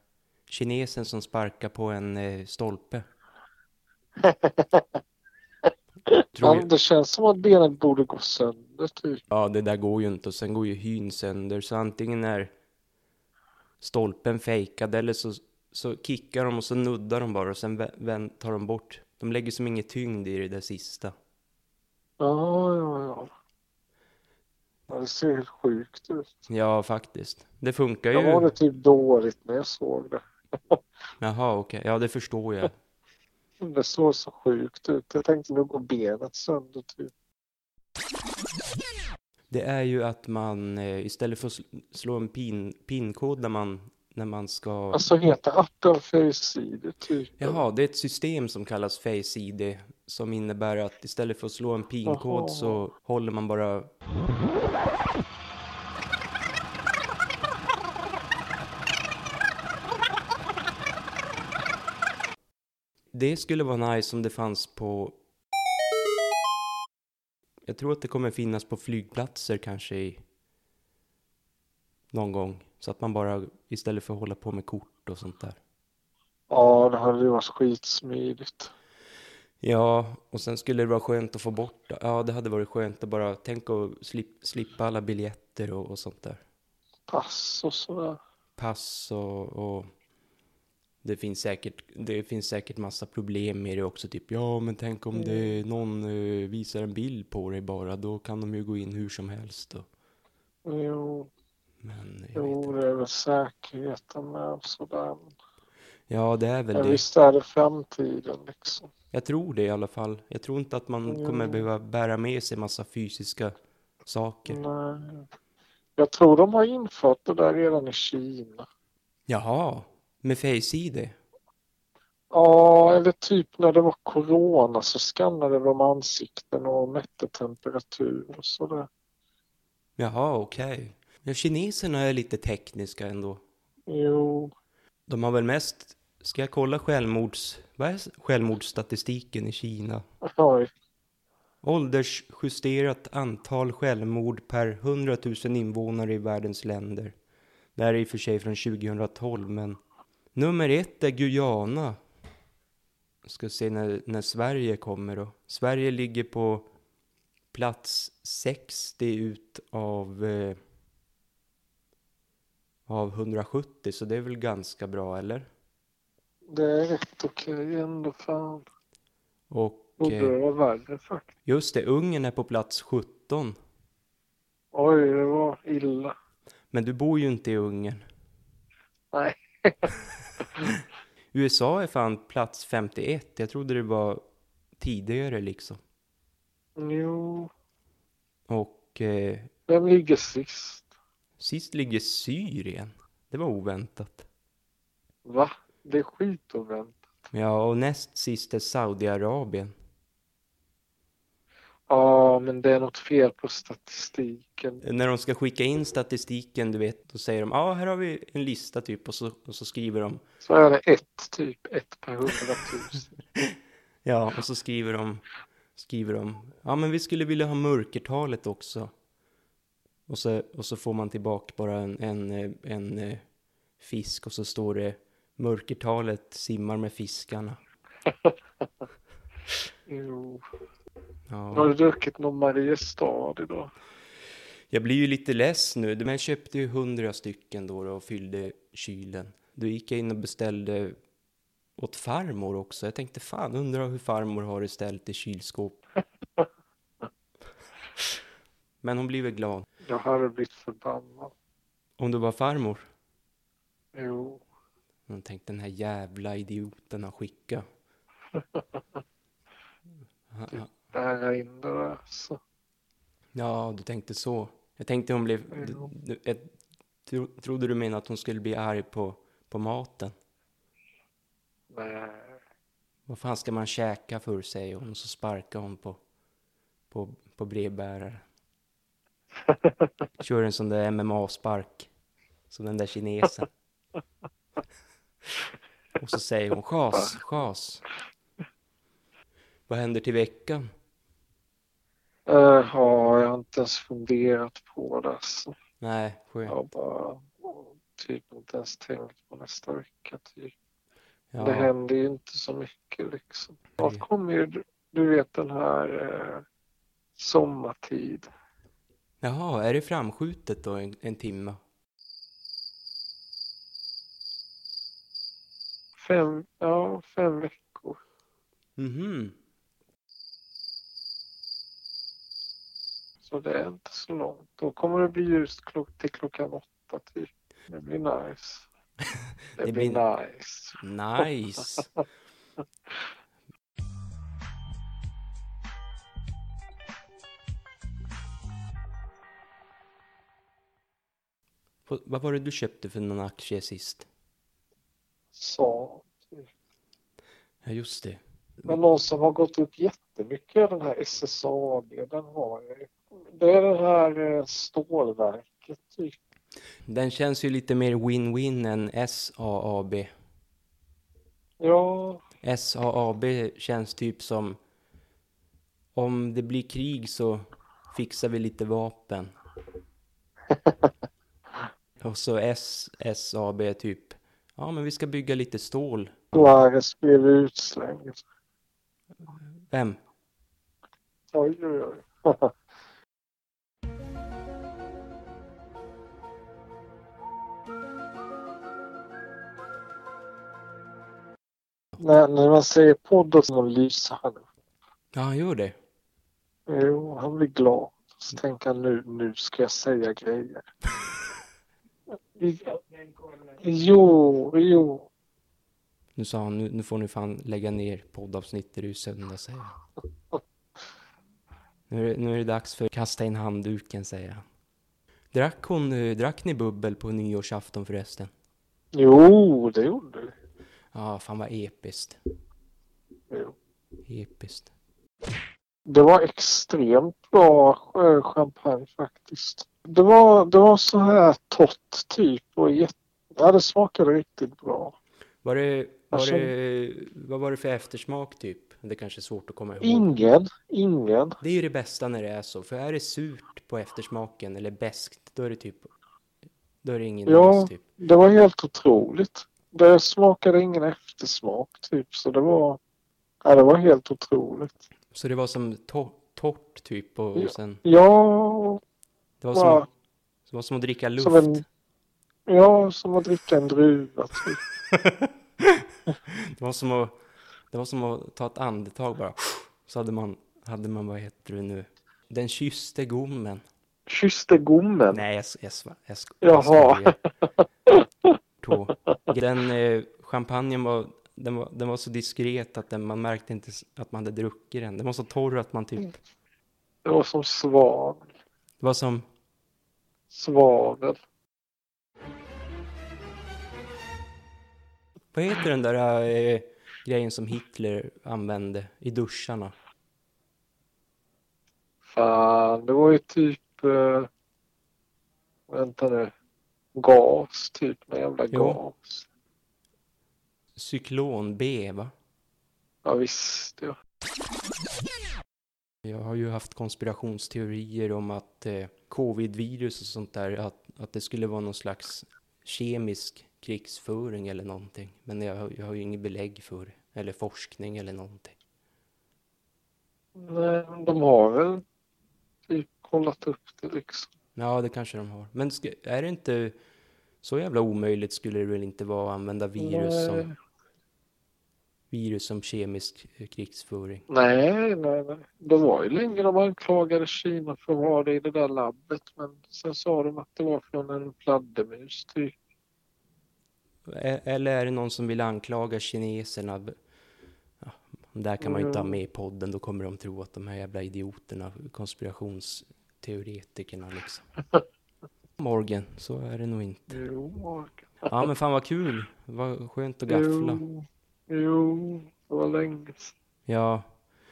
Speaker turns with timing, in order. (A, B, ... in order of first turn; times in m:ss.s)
0:00.5-0:03.0 A
0:04.2-0:05.0 B
0:06.1-0:09.2 B
0:06.3-0:06.7 A
0:09.3-0:12.5 A
0:13.8-0:21.1 A
0:22.2-0:23.3 B
0:24.9-0:26.3 B
0:26.5-0:28.5 A
0:28.1-0:30.8 B
0:31.2-0:32.7 A
0:33.6-0:37.1 B
0:39.5-0:45.0 A
0:44.9-0:47.6 B
0:47.4-0:53.9 A
0:52.0-0:52.8 B
1:03.1-1:05.1 A
1:07.6-1:10.2 A
1:12.1-1:15.6 A
1:16.5-1:18.7 B
1:19.6-1:26.4 A
1:27.1-1:28.2 B
1:28.6-1:29.8 A
1:31.0-1:39.8 A
1:35.1-1:35.6 B
1:40.6-1:41.3 B
1:41.8-1:42.7 A
1:42.4-1:45.3 B
1:46.1-1:47.0 A
1:46.7-1:48.9 B
1:49.1-1:53.5 A
1:51.1-1:51.6 B
1:54.0-1:54.6 A
1:54.5-1:55.3 B
1:56.0-1:58.7 B
1:59.3-2:01.2 A
2:02.3-2:08.9 B
2:10.0-2:13.4 A
2:13.9-2:14.5 B
2:15.1-2:20.0 A
2:20.3-2:20.7 B
2:21.6-2:27.1 A
2:27.8-2:29.8 A
2:30.3-2:32.0 A
2:33.2-2:36.7 A
2:37.5-2:40.6 A
2:42.9-2:45.4 A
2:46.5-2:48.6 B
2:49.5-2:50.3 A
2:50.0-2:51.3 B
2:51.4-2:53.5 A
2:54.7-2:56.1 B
2:56.7-2:58.0 A
2:59.1-2:59.9 B
3:01.3-3:04.2 A
3:04.8-3:05.8 A
3:06.8-3:07.5 B
3:08.5-3:09.5 A
3:09.7-3:10.9 B
3:11.4-3:14.2 A
3:15.2-3:17.0 B
3:17.3-3:19.7 A
3:21.9-3:24.8 B
3:24.8-3:30.2 A
3:30.4-3:33.1 B
3:34.0-3:35.2 A
3:35.8-3:38.9 A
3:40.1-3:43.2 A
3:43.8-3:47.6 A
3:49.9-3:50.4 B
3:51.3-3:51.7 A
3:51.5-3:53.7 B
3:54.7-4:00.9 A
4:01.8-4:05.8 A
4:08.8-4:09.7 A
4:09.8-4:11.3 B
4:12.0-4:12.8 A
4:13.9-4:14.4 B
4:15.1-4:17.6 A
4:18.3-4:18.8 B
4:20.3-4:20.7 A
4:20.5-4:22.4 B
4:23.3-4:26.5 A
4:25.5-4:25.9 B
4:27.0-4:30.1 A
4:31.7-4:32.4 B
4:33.1-4:36.0 A
4:36.9-4:38.2 A
4:40.2-4:41.9 A
4:42.5-4:43.5 A
4:46.0-4:47.8 A
4:49.7-4:50.6 A
4:52.3-4:55.5 B
4:55.8-4:56.6 A
4:56.5-5:00.5 B
5:01.3-5:01.7 A
5:01.4-5:06.4 B
5:07.2-5:08.3 B
5:09.2-5:11.6 A
5:16.0-5:18.0 B
5:18.8-5:19.3 A
5:23.2-5:28.7 B
5:29.6-5:30.0 A
5:29.6-5:31.2 B
5:30.8-5:31.8 A
5:41.9-5:44.1 A
5:45.3-5:46.5 B
5:47.6-5:48.2 A
5:48.6-5:56.2 B
5:56.9-6:00.1 A
6:01.6-6:02.2 B
6:02.4-6:04.6 A
6:06.0-6:09.3 A
6:12.0-6:16.2 A
6:16.3-6:18.2 B
6:19.7-6:20.0 A
6:21.3-6:22.5 B
6:32.0-6:34.4 B
6:35.1-6:35.8 A
6:36.7-6:40.6 B
6:42.4-6:42.8 B
6:43.4-6:45.1 B
6:46.2-6:49.7 A
6:51.9-6:54.4 A
6:55.3-6:58.3 A
6:58.9-7:00.3 B
7:00.9-7:02.2 A
7:03.3-7:03.6 B
7:04.0-7:04.7 A
7:05.9-7:14.9 B
7:15.4-7:20.0 A
7:16.1-7:16.5 B
7:19.8-7:21.4 B
7:21.4-7:25.9 A
7:26.8-7:27.8 A
7:27.2-7:32.8 B
7:33.4-7:34.8 B
7:35.1-7:37.8 A
7:37.4-7:38.8 B
7:39.4-7:39.8 A
7:39.5-7:39.9 B
7:40.5-7:41.6 A
7:41.2-7:41.6 B
7:42.5-7:44.6 B
7:44.9-7:47.2 A
7:47.7-7:53.6 A
7:54.1-7:55.2 B
7:55.1-7:57.2 A
7:56.4-7:57.2 B
7:57.9-7:58.3 B
7:58.6-8:06.2 A
8:07.0-8:08.2 B
8:08.8-8:09.2 A
8:10.3-8:11.2 B
8:15.3-8:19.7 A
8:22.1-8:24.3 B
8:25.7-8:26.3 B
8:26.9-8:29.2 B
8:28.5-8:28.8 A
8:30.8-8:32.1 A
8:33.0-8:34.0 B
8:36.0-8:48.6 A
8:50.4-8:51.8 B
8:52.7-8:54.3 B
8:54.5-8:56.7 A
8:57.4-9:00.5 A
8:59.8-9:00.5 B
9:02.1-9:04.2 A
9:04.3-9:12.5 B
9:14.1-9:16.9 A
9:17.8-9:24.4 A
9:18.6-9:19.2 B
9:25.6-9:27.2 A
9:27.1-9:28.3 B
9:28.3-9:30.8 A
9:30.3-9:33.3 B
9:33.6-9:34.0 A